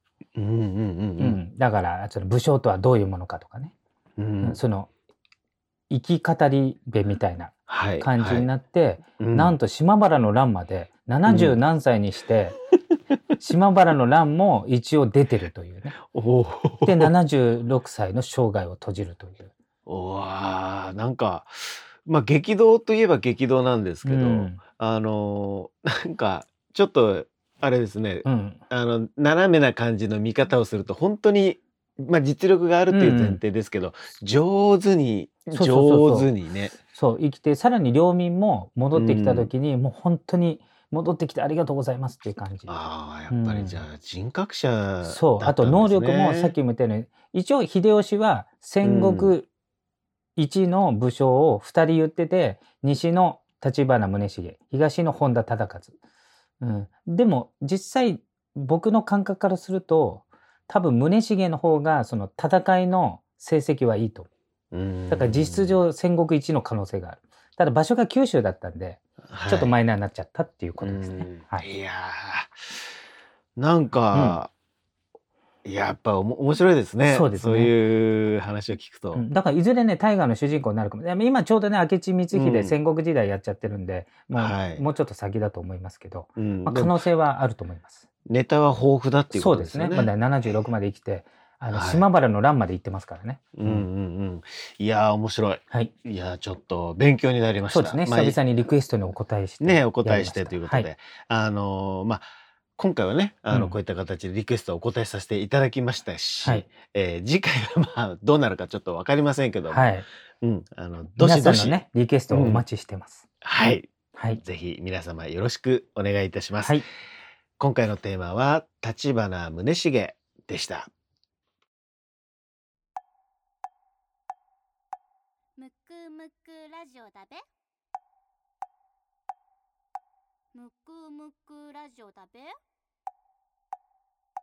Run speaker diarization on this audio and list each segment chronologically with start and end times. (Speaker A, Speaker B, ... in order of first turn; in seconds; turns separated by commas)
Speaker A: 0.3-1.4, Speaker B: 1.2-3.7, Speaker A: 4.2-4.6, Speaker B: 4.4-4.9, Speaker B: 5.9-12.6, Speaker A: 7.7-8.5, Speaker A: 9.2-9.5, Speaker A: 11.3-11.6, Speaker B: 13.4-16.0, Speaker A: 16.0-17.1, Speaker B: 16.8-19.5, Speaker A: 19.9-36.8, Speaker B: 24.0-24.6, Speaker B: 28.2-28.6, Speaker B: 32.9-33.4, Speaker B: 35.5-36.3, Speaker B: 36.9-42.8, Speaker A: 38.9-39.5, Speaker A: 42.7-46.5, Speaker B: 43.3-43.8, Speaker B: 45.0-49.5, Speaker A: 48.8-49.3, Speaker B: 50.4-55.9, Speaker B: 56.6-64.3, Speaker A: 64.7-65.8, Speaker B: 65.1-71.7, Speaker A: 69.3-69.7, Speaker A: 70.8-72.8, Speaker A: 73.5-74.5, Speaker B: 74.1-74.4, Speaker A: 75.6-79.2, Speaker B: 77.1-77.7, Speaker B: 79.1-88.0, Speaker A: 82.3-82.7, Speaker A: 84.3-84.8, Speaker A: 86.4-87.0, Speaker A: 88.2-90.1, Speaker B: 89.3-93.9, Speaker A: 91.7-92.0, Speaker A: 93.5-98.4, Speaker B: 97.7-100.9, Speaker A: 99.6-102.2, Speaker A: 102.8-109.9, Speaker B: 109.7-110.0, Speaker A: 110.4-111.8, Speaker B: 111.2-113.2, Speaker A: 112.3-112.6, Speaker A: 113.4-116.8, Speaker A: 117.6-120.9, Speaker C: 125.6-127.4, Speaker C: 130.5-132.5